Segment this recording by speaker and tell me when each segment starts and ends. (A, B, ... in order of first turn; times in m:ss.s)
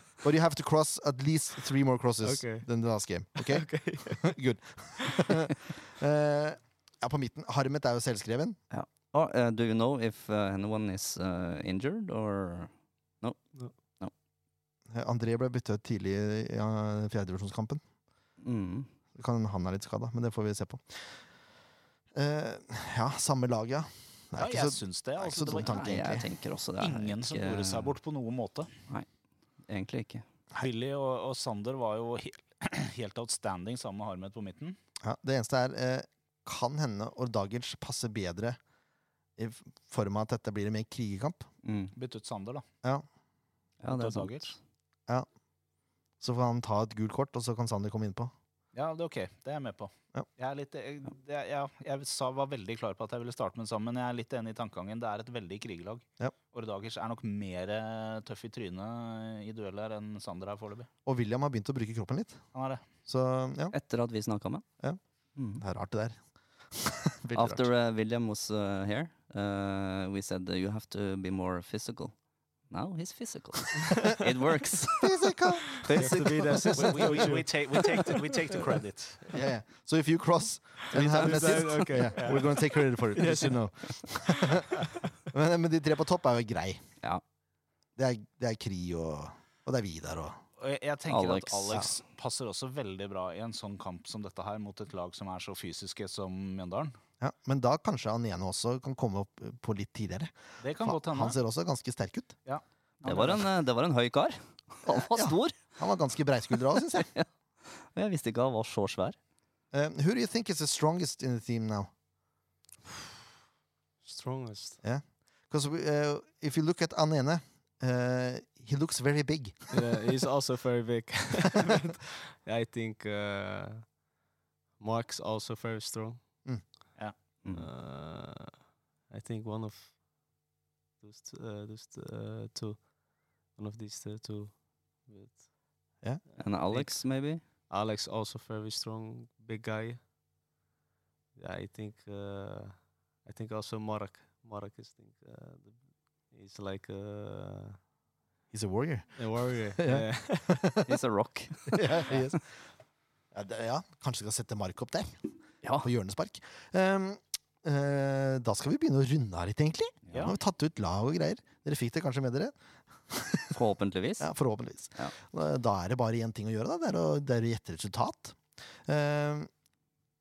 0:00.2-0:08.6 A
0:02.2-0:02.7 B
0:03.3-0:04.3 B
0:08.7-0:14.1 C
0:14.9-0:17.8 A
0:18.4-0:18.9 C
0:19.1-0:21.2 A
0:22.1-0:26.2 A
0:24.4-0:26.0 D
0:25.4-0:27.9 C
0:26.8-0:28.7 D
0:29.7-0:30.2 C
0:30.6-0:34.8 D
0:35.0-0:38.6 A
0:39.4-0:41.5 A
0:41.6-0:41.9 C
0:41.9-0:42.6 D
0:43.8-0:44.6 C
0:43.9-0:44.5 D
0:46.2-0:48.3 A
0:48.7-1:00.9 D
1:01.0-1:02.4 A
1:02.5-1:02.8 D
1:03.0-1:03.7 A
1:03.7-1:04.6 C
1:05.4-1:05.6 C
1:05.5-1:06.2 A
1:06.7-1:07.6 A
1:07.3-1:12.2 C
1:12.7-1:16.5 C
1:15.0-1:17.3 A
1:15.9-1:18.1 B
1:16.8-1:19.2 D
1:19.3-1:26.8 A
1:20.9-1:23.6 B
1:22.1-1:22.4 D
1:28.0-1:30.4 A
1:30.6-1:37.0 D
1:31.1-1:31.9 C
1:37.2-1:42.3 A
1:40.6-1:41.4 D
1:42.4-1:43.4 D
1:43.0-1:45.5 C
1:44.9-1:47.1 A
1:46.9-1:49.2 C
1:49.7-1:51.9 A
1:54.0-1:54.8 B
1:54.8-1:59.8 A
1:59.7-2:04.0 B
2:04.8-2:06.4 B
2:07.4-2:07.7 C
2:07.5-2:10.0 B
2:11.0-2:20.1 B
2:16.4-2:17.4 C
2:21.3-2:27.8 B
2:28.5-2:30.9 A
2:29.1-2:30.7 B
2:30.8-2:32.1 C
2:31.7-2:32.5 A
2:33.3-2:42.5 A
2:35.6-2:35.9 C
2:43.0-2:43.6 A
2:43.5-2:44.3 C
2:44.2-2:49.5 A